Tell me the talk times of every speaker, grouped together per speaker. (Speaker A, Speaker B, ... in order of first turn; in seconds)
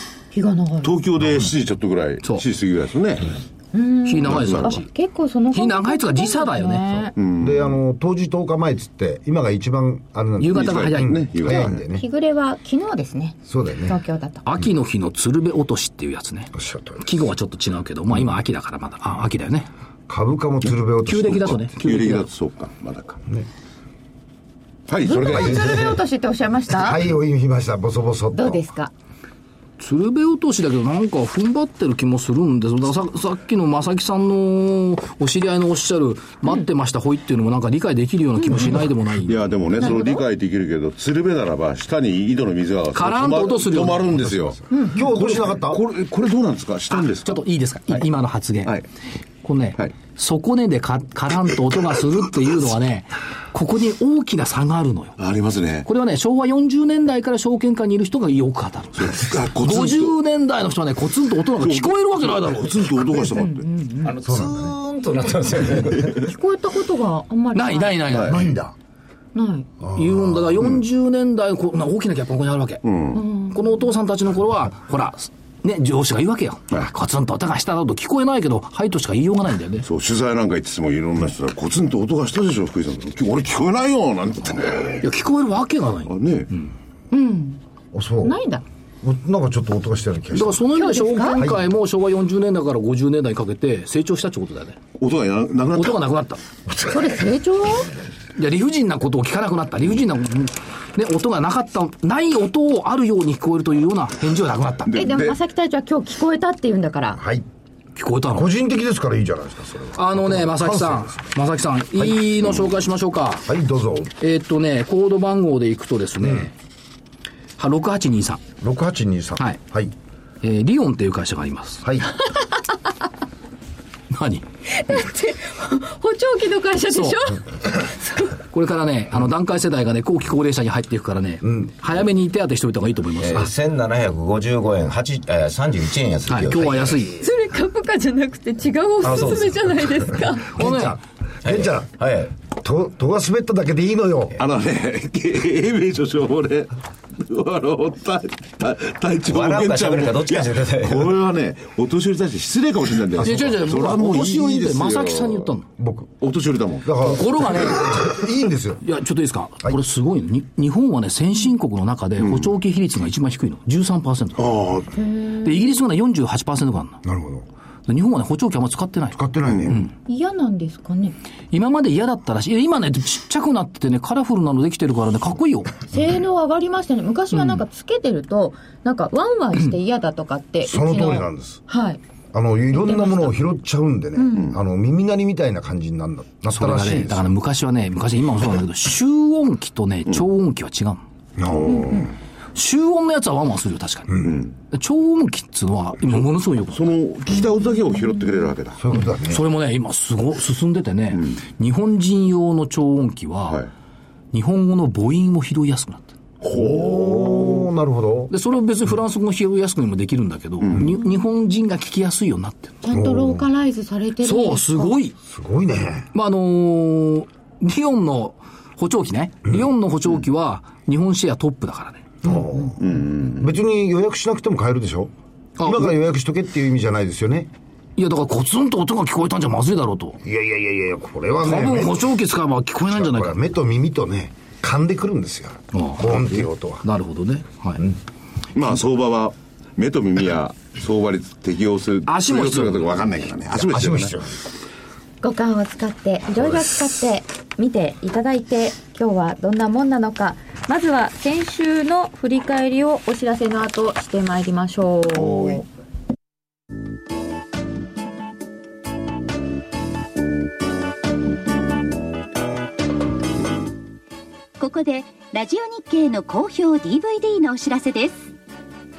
Speaker A: 0.3-1.0, 3.7-7.1, 11.4-14.4, 25.0-27.0, 28.3-28.9, 38.5-38.7, 39.8-40.2, 63.2-64.1, 66.2-68.1, 69.3-69.7, 73.1-73.8, 87.1-87.6, 88.2-88.6, 90.7-91.4, 96.9-97.9, 104.9-107.2, 124.7-128.3, 137.2-140.5, 164.9-165.6, 170.1-171.1, 175.9-182.0, 182.7-183.4, 184.2-184.5, 212.8-214.9, 245.2-255.7
Speaker B: 0.8-3.3, 4.3-4.7, 7.2-7.7, 10.5-11.8, 21.7-23.2, 24.9-26.0, 38.6-47.4, 55.2-55.9, 59.0-60.1, 61.6-63.7, 68.1-68.5, 72.8-73.2, 79.8-85.1, 86.0-86.5, 95.0-96.0, 104.8-105.4, 144.4-155.5, 156.2-157.0, 162.2-162.5, 164.4-164.9, 191.6-192.1, 194.2-194.5, 196.7-198.8, 206.4-207.7, 210.6-210.9, 222.8-223.5, 238.5-244.2
Speaker C: 4.0-4.9, 5.5-7.0, 10.4-11.2, 14.4-19.7, 21.1-22.2, 29.8-39.9, 42.9-44.1, 47.2-48.8, 49.4-55.2, 55.8-62.9, 67.5-68.5, 69.9-72.8, 73.5-79.8, 85.0-86.1, 90.3-94.8, 95.7-96.4, 98.3-104.9, 108.0-108.5, 110.0-113.5, 114.2-116.5, 117.6-118.4, 120.4-121.8, 124.1-124.4, 126.9-127.2, 128.5-133.5, 136.3-137.2, 140.6-141.0, 153.2-155.6, 157.0-158.0, 158.8-164.5, 165.4-167.0, 167.9-169.2, 171.5-175.7, 177.3-177.6, 186.5-191.0, 192.5-196.8, 199.3-203.6, 204.3-206.1, 208.3-212.8, 214.2-215.2, 216.1-222.1, 225.6-225.9, 228.0-230.2, 231.4-233.4, 235.7-237.8, 242.1-242.9
Speaker D: 7.4-12.0, 13.5-13.9, 16.6-17.0, 20.1-21.6, 25.3-25.9, 26.8-28.6, 44.2-45.8, 64.2-64.7, 68.3-68.7, 69.8-70.4, 87.9-88.3, 89.0-90.7, 91.3-91.6, 107.1-107.5, 108.3-111.1, 113.5-114.1, 118.6-119.9, 121.8-122.1, 131.4-131.7, 139.0-139.6, 140.4-141.9, 142.5-144.4, 155.8-156.1, 156.8-158.8, 167.0-167.4, 169.1-169.8, 180.6-181.6, 182.3-187.3, 191.4-192.1, 198.8-199.4, 206.5-208.3, 212.9-213.4, 215.2-216.1, 222.2-222.8, 223.3-227.5, 230.2-232.1, 232.9-236.8, 243.6-244.3
Speaker E: 64.0-66.2, 133.2-137.1, 139.0-139.6, 141.4-142.3, 149.2-151.2
Speaker F: 264.6-268.3